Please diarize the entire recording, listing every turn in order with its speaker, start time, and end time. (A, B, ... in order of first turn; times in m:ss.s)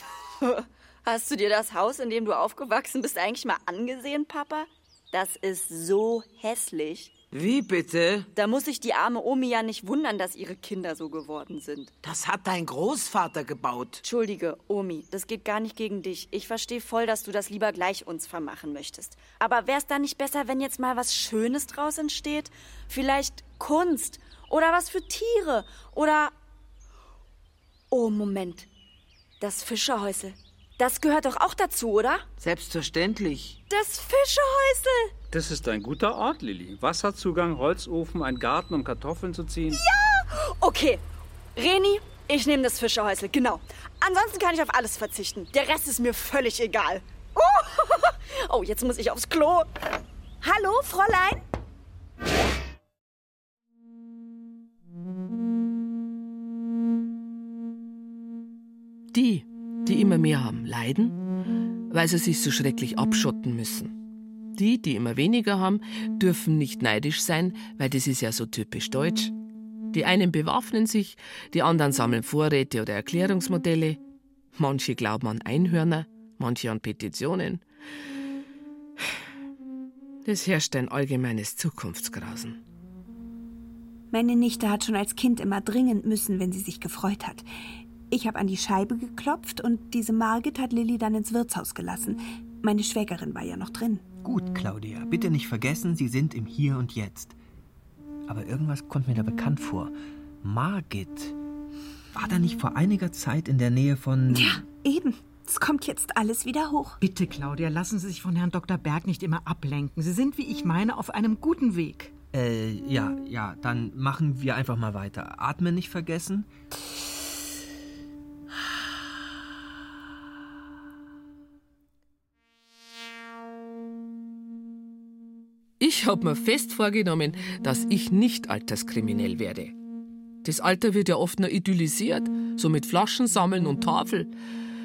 0:00.4-0:07.1 A
0:07.3-0:08.3 B
0:08.3-0:11.9 A
0:12.0-0:14.0 B
0:14.0-0:26.3 A
0:27.9-0:28.7 A
0:29.4-0:32.2 A
0:32.4-0:33.6 B
0:33.7-0:35.1 A
0:35.3-0:39.8 C
0:39.7-0:41.0 A
0:41.5-0:49.7 A
0:50.4-0:51.4 D
0:59.1-1:01.2 E
1:01.9-1:04.0 E
1:04.5-1:09.3 E
1:09.9-1:14.0 E
1:14.5-1:17.6 E
1:20.2-1:22.6 E
1:24.1-1:27.5 D
1:28.1-1:34.0 D
1:34.2-1:37.4 F
1:38.3-1:41.4 F
1:42.1-1:44.6 F
1:44.3-1:47.0 D
1:47.0-1:52.1 G
1:52.3-1:56.5 F
2:05.8-2:09.7 E
2:10.4-2:14.3 E